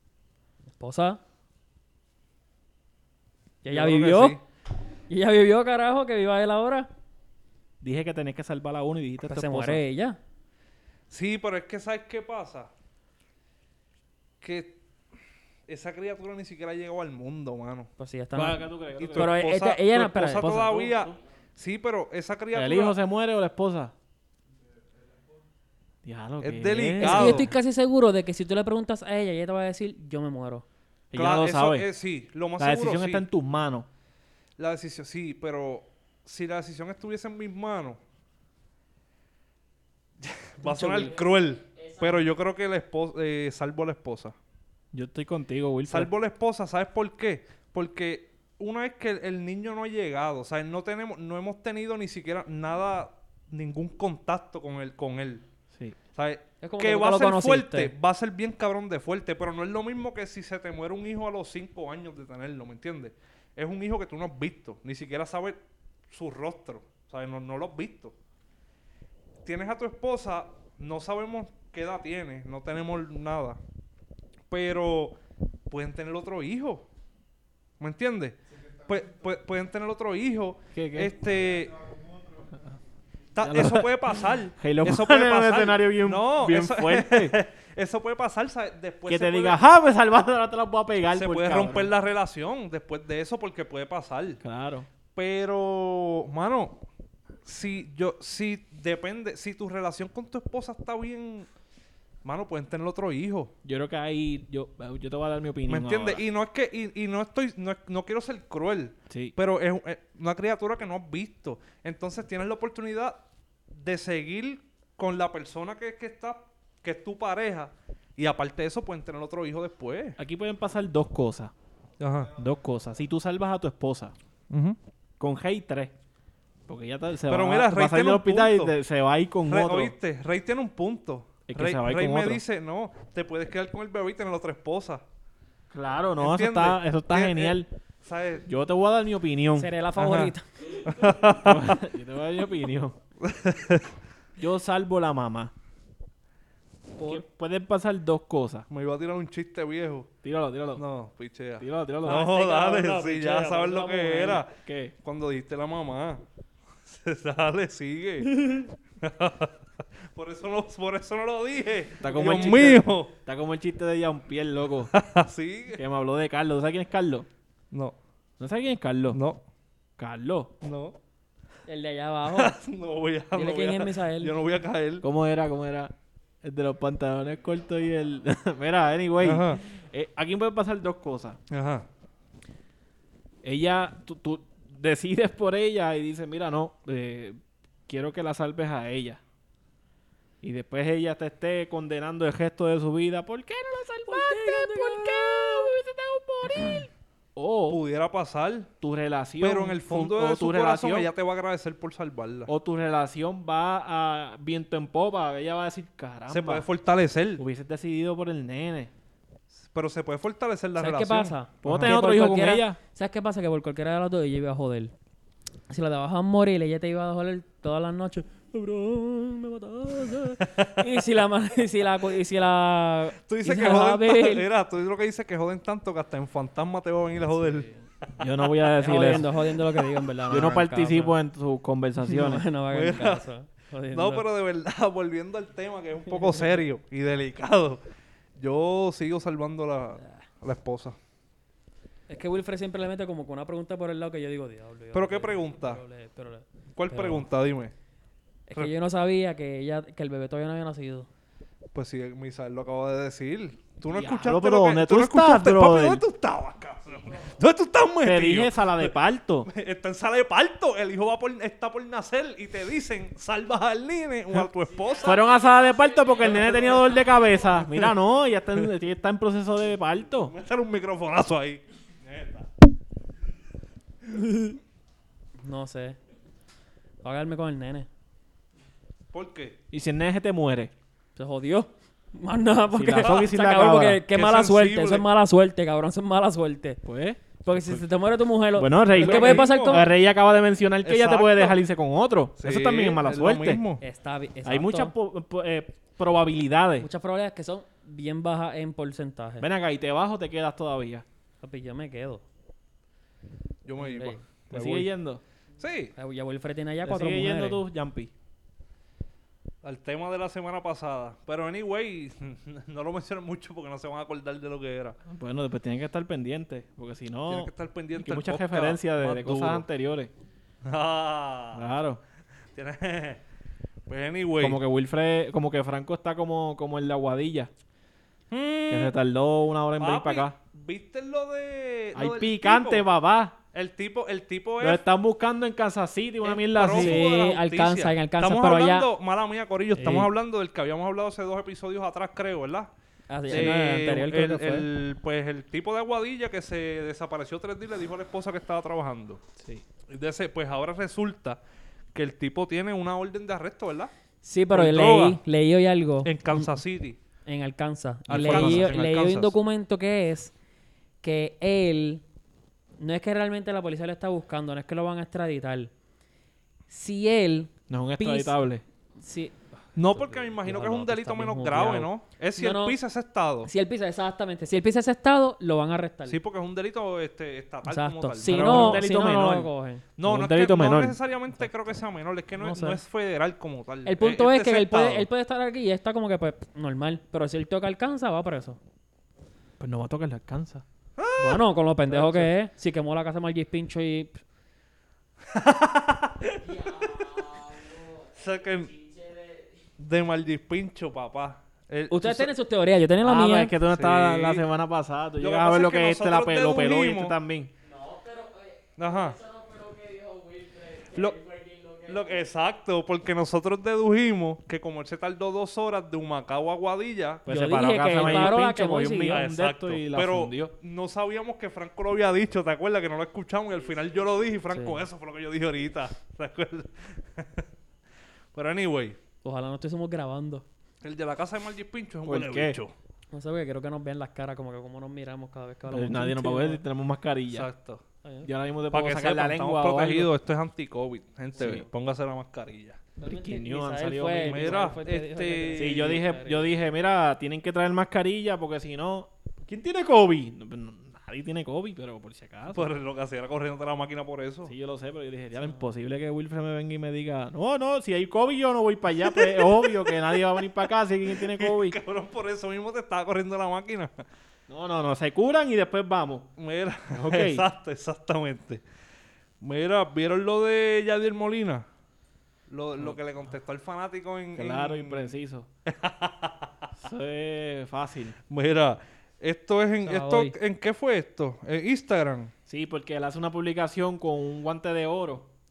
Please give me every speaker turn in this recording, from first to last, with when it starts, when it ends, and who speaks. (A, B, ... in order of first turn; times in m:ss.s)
0:00.8-0:01.2 A
0:03.6-0:04.4 A
0:03.7-0:04.4 B
0:05.1-0:06.9 A
0:07.8-0:09.8 C
0:09.2-0:10.2 A
0:11.1-0:12.7 B
0:14.4-0:14.8 B
0:15.7-0:17.9 B
0:18.0-0:20.7 A
0:18.4-0:19.4 C
0:19.0-0:23.0 B
0:20.4-0:21.2 C
0:22.5-0:23.9 C
0:26.0-0:27.5 C
0:26.4-0:27.5 B
0:27.0-0:30.6 A
0:31.1-0:31.9 C
0:31.1-0:33.3 B
0:32.6-0:33.9 C
0:34.6-0:38.0 B
0:40.2-0:44.4 B
0:40.6-0:41.2 A
0:40.9-0:42.3 D
0:44.9-0:46.1 C
0:45.9-0:55.4 B
0:56.2-1:08.2 B
0:56.6-0:57.9 A
1:09.4-1:13.6 B
1:14.5-1:15.2 B
1:15.7-1:16.9 B
1:17.8-1:21.8 B
1:20.7-1:21.1 C
1:23.3-1:29.6 B
1:23.4-1:27.4 C
1:29.1-1:31.9 C
1:31.1-1:34.4 B
1:34.4-1:34.9 C
1:35.2-1:36.8 B
1:37.4-1:41.5 B
1:42.2-1:43.5 B
1:43.6-1:46.2 C
1:45.7-2:00.2 B
1:49.1-1:49.4 C
2:00.2-2:01.5 C
2:02.0-2:02.3 B
2:02.4-2:04.2 C
2:04.5-2:04.8 B
2:05.2-2:06.0 C
2:06.7-2:09.9 C
2:07.3-2:08.8 B
2:09.5-2:15.0 B
2:11.5-2:12.4 C
2:15.7-2:17.7 C
2:16.2-2:18.5 B
2:18.5-2:19.7 C
2:19.6-2:20.8 A
2:20.0-2:20.3 B
2:20.8-2:21.7 B
2:21.4-2:23.0 C
2:23.2-2:23.9 B
2:24.4-2:25.5 C
2:27.0-2:28.7 C
2:28.7-2:30.1 B
2:30.2-2:30.8 C
2:30.8-2:36.2 B
2:31.6-2:32.3 C
2:32.0-2:34.4 A
2:34.6-2:34.9 C
2:36.8-2:43.1 B
2:38.3-2:38.7 A
2:42.0-2:44.9 C
2:44.9-2:45.8 B
2:45.7-2:47.3 C
2:47.7-2:48.0 B
2:48.4-2:49.2 C
2:49.1-2:49.4 B
2:50.0-2:50.5 C
2:50.6-2:51.0 B
2:51.7-2:52.6 A
2:52.3-2:55.0 B
2:53.3-2:54.3 A
2:55.0-3:01.4 C
2:59.2-2:59.6 B
3:01.5-3:01.9 B
3:03.4-3:09.2 C
3:10.4-3:17.8 C
3:14.1-3:15.8 A
3:16.4-3:16.9 A
3:17.7-3:18.7 B
3:18.8-3:21.1 C
3:19.4-3:22.5 B
3:22.5-3:26.7 C
3:26.3-3:27.4 B
3:27.4-3:28.9 C
3:29.6-3:32.0 B
3:30.8-3:34.9 A
3:31.6-3:32.8 C
3:35.7-3:44.5 A
3:40.5-3:41.0 B
3:43.2-3:47.7 B
3:47.4-3:47.8 A
3:48.2-3:49.3 C
3:48.8-3:51.2 A
3:50.3-3:52.4 C
3:52.0-3:54.3 A
3:52.7-3:53.3 B
3:53.9-3:57.8 B
3:58.4-4:01.0 B
4:02.1-4:07.3 A
4:04.9-4:05.8 B
4:06.8-4:07.7 B
4:08.5-4:11.1 A
4:11.7-4:18.9 B
4:13.9-4:16.0 C
4:18.0-4:19.5 C
4:19.5-4:25.2 B
4:24.7-4:27.1 D
4:25.0-4:30.3 C
4:26.2-4:27.0 B
4:27.6-4:27.9 B
4:30.3-4:32.5 B
4:34.2-4:34.6 A
4:35.4-4:36.0 A
4:37.0-4:37.9 A
4:39.1-4:39.6 B
4:39.7-4:40.7 C
4:41.2-4:46.8 A
4:42.7-4:44.0 C
4:43.0-4:43.4 B
4:44.1-4:45.1 B
4:46.8-4:47.8 C
4:47.4-4:49.9 A
4:48.6-4:53.6 C
4:49.0-4:49.9 B
4:50.8-4:51.6 B
4:52.4-4:53.8 B
4:53.8-4:54.9 A
4:54.4-4:56.9 C
4:56.8-4:59.4 A
4:59.4-5:01.0 C
5:01.4-5:02.2 A
5:03.6-5:04.9 B
5:03.8-5:04.2 A
5:04.5-5:05.2 C
5:05.6-5:05.9 B
5:06.0-5:07.6 A
5:06.8-5:08.1 C
5:09.6-5:15.0 B
5:15.1-5:20.1 C
5:17.3-5:19.7 B
5:20.6-5:21.7 B
5:21.5-5:22.0 C
5:22.5-5:23.2 B
5:23.9-5:24.6 B
5:24.4-5:27.5 C
5:28.3-5:28.9 B
5:28.7-5:30.4 C
5:29.8-5:32.9 B
5:32.0-5:33.4 C
5:33.5-5:34.8 B
5:34.6-5:37.1 C
5:36.2-5:42.7 B
5:36.4-5:38.9 A
5:39.8-5:40.1 C
5:43.1-5:44.7 A
5:43.3-5:49.2 B
5:49.4-5:49.6 C
5:49.9-5:51.4 B
5:51.9-5:53.9 B
5:54.2-5:56.5 A
5:54.5-5:55.2 B
5:56.0-5:57.0 B
5:57.3-6:00.3 A
5:58.1-5:59.4 B
5:58.1-5:58.7 C
6:01.0-6:02.0 A
6:02.8-6:05.7 A
6:06.7-6:08.3 A
6:07.7-6:08.6 C
6:09.0-6:12.8 A
6:09.8-6:13.5 B
6:13.5-6:16.2 A
6:16.1-6:18.8 B
6:17.7-6:19.8 A
6:18.2-6:19.5 C
6:20.0-6:25.1 B
6:20.0-6:21.0 C
6:22.4-6:22.8 A
6:23.9-6:28.6 A
6:29.6-6:30.6 C
6:31.0-6:31.4 B
6:31.2-6:34.2 A
6:31.9-6:32.3 C
6:35.3-6:37.2 B
6:36.4-6:39.7 D
6:38.2-6:38.7 B
6:39.8-6:42.3 B
6:41.9-6:43.5 A
6:43.0-6:47.5 C
6:43.7-6:44.4 B
6:45.2-6:47.2 B
6:47.6-6:52.2 D
6:48.8-6:49.2 B
6:50.9-6:51.2 B
6:51.9-6:57.3 B
6:57.3-7:00.5 C
6:57.3-6:59.2 A
6:58.0-6:58.4 B
6:59.1-7:07.5 B
7:04.5-7:04.8 A
7:08.3-7:09.0 B
7:09.2-7:10.4 A
7:10.8-7:12.7 B
7:12.1-7:12.6 C
7:13.1-7:16.6 A
7:15.7-7:17.5 C
7:17.3-7:17.8 B
7:18.0-7:18.3 A
7:18.2-7:20.1 C
7:18.7-7:22.8 B
7:21.4-7:21.7 C
7:23.0-7:24.7 C
7:23.0-7:26.5 A
7:24.2-7:26.0 B
7:25.6-7:32.7 C
7:32.5-7:34.5 B
7:34.4-7:41.8 C
7:39.0-7:44.0 B
7:44.5-7:46.3 C
7:46.4-7:48.6 B
7:46.9-7:47.5 C
7:49.4-7:51.7 B
7:52.5-7:55.1 B
7:54.4-7:55.5 C
7:55.6-7:56.7 B
7:56.8-7:58.2 C
7:58.3-8:02.3 B
7:59.8-8:00.4 A
8:02.5-8:05.3 C